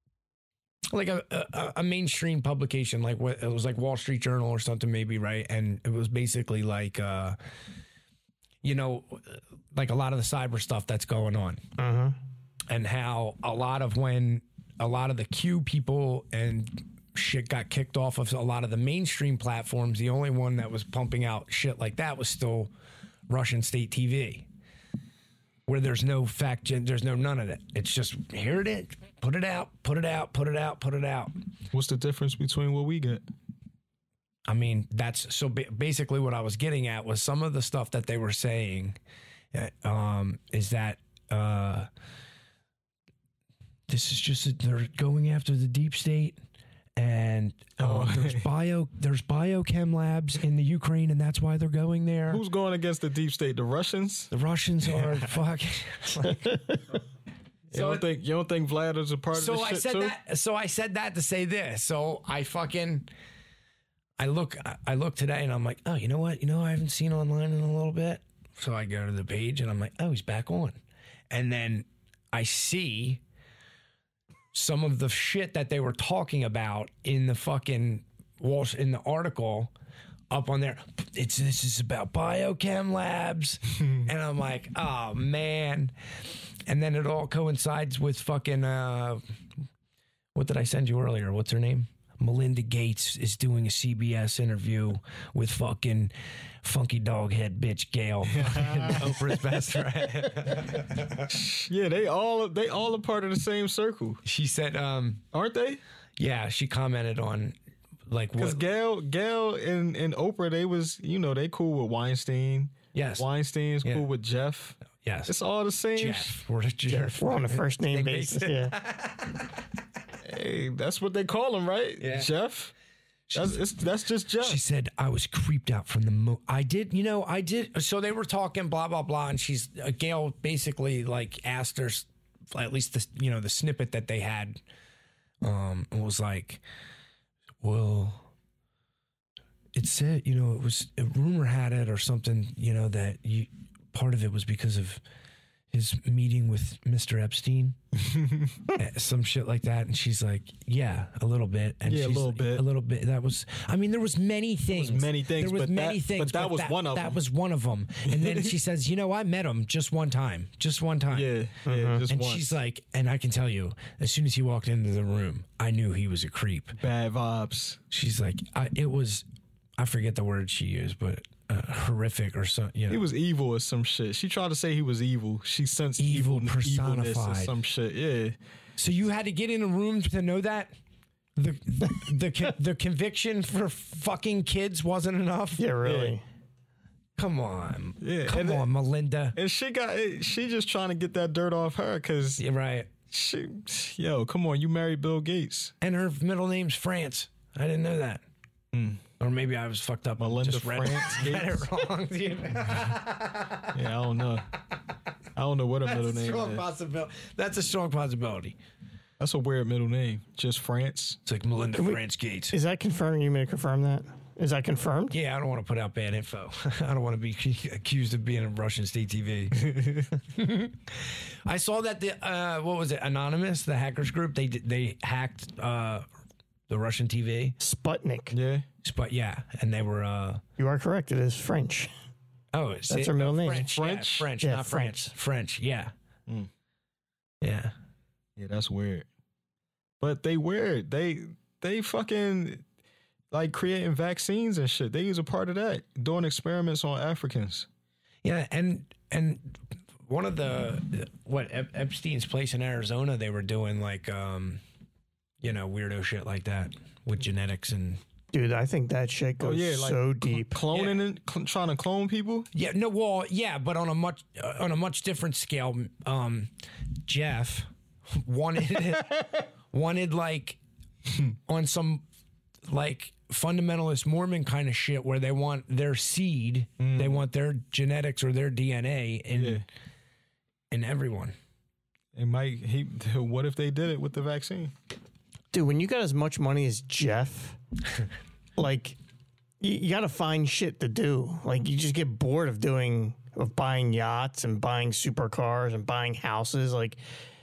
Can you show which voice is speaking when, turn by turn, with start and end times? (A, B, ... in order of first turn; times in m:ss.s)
0:00.9-0:07.4 A
0:08.6-0:11.6 A
0:11.8-0:12.2 B
0:12.7-0:22.7 A
0:23.3-0:24.5 A
0:25.7-0:31.3 A
0:31.7-0:33.2 C
0:34.5-0:39.0 A
0:39.5-0:41.9 A
0:43.9-0:46.4 A
0:47.0-0:52.4 A
0:47.8-0:48.5 C
0:52.3-0:54.3 C
0:54.3-0:56.6 A
0:54.9-0:55.2 C
0:57.7-1:00.1 C
0:57.7-0:58.0 A
0:59.3-1:03.1 A
1:04.2-1:10.8 A
1:11.3-1:13.2 A
1:14.5-1:19.7 A
1:20.3-1:25.9 A
1:26.7-1:29.2 A
1:30.3-1:41.3 A
1:38.3-1:39.4 C
1:41.3-1:44.2 C
1:44.2-1:45.2 A
1:45.3-1:45.8 C
1:46.2-1:47.5 A
1:48.1-1:48.6 A
1:48.4-1:56.4 C
1:52.9-1:53.3 A
1:55.0-1:55.3 A
1:55.9-1:59.5 A
1:56.9-1:58.7 B
2:00.2-2:02.7 C
2:02.0-2:02.3 A
2:03.3-2:03.6 A
2:03.3-2:04.6 C
2:04.4-2:14.6 A
2:15.4-2:16.6 A
2:17.6-2:18.2 A
2:19.7-2:25.0 A
2:25.7-2:27.8 A
2:27.9-2:28.6 C
2:28.7-2:41.3 A
2:31.8-2:32.6 C
2:34.7-2:37.2 C
2:38.0-2:38.6 C
2:41.1-2:42.4 C
2:41.6-2:42.0 B
2:42.1-2:46.8 A
2:46.8-2:47.8 C
2:47.9-2:49.2 A
2:49.8-2:53.0 A
2:52.9-2:58.4 C
2:56.0-2:57.5 A
2:58.8-3:00.7 A
3:01.4-3:05.6 A
3:05.6-3:06.2 B
3:05.8-3:06.2 C
3:07.2-3:09.4 A
3:08.0-3:08.7 C
3:09.3-3:12.4 C
3:12.4-3:12.9 A
3:13.1-3:15.7 C
3:15.8-3:18.2 A
3:18.7-3:19.0 C
3:19.2-3:23.8 A
3:20.2-3:21.7 C
3:23.7-3:24.5 C
3:25.4-3:26.6 C
3:25.8-3:28.6 A
3:29.2-3:31.2 C
3:31.2-3:32.5 A
3:31.7-3:32.0 B
3:32.5-3:35.1 B
3:35.1-3:46.0 A
3:39.6-3:40.0 C
3:46.7-3:47.6 A
3:47.6-3:48.3 B
3:48.3-3:48.6 C
3:48.8-3:50.4 A
3:50.6-3:51.9 B
3:52.5-3:55.9 A
3:52.9-3:53.7 B
3:53.7-3:54.3 C
3:54.4-3:55.1 B
3:57.4-3:57.7 A
3:58.4-3:59.1 C
4:00.0-4:02.6 C
4:03.3-4:07.7 C
4:08.2-4:14.6 A
4:15.4-4:18.0 A
4:18.3-4:20.6 B
4:19.4-4:22.5 C
4:20.7-4:21.0 A
4:22.5-4:26.5 A
4:27.0-4:30.6 A
4:31.5-4:32.0 A
4:32.7-4:39.6 A
4:36.8-4:37.2 C
4:39.3-4:39.6 C
4:40.7-4:41.4 A
4:42.1-4:44.7 C
4:45.5-4:47.6 B
4:48.6-4:49.0 B
4:49.6-4:57.0 B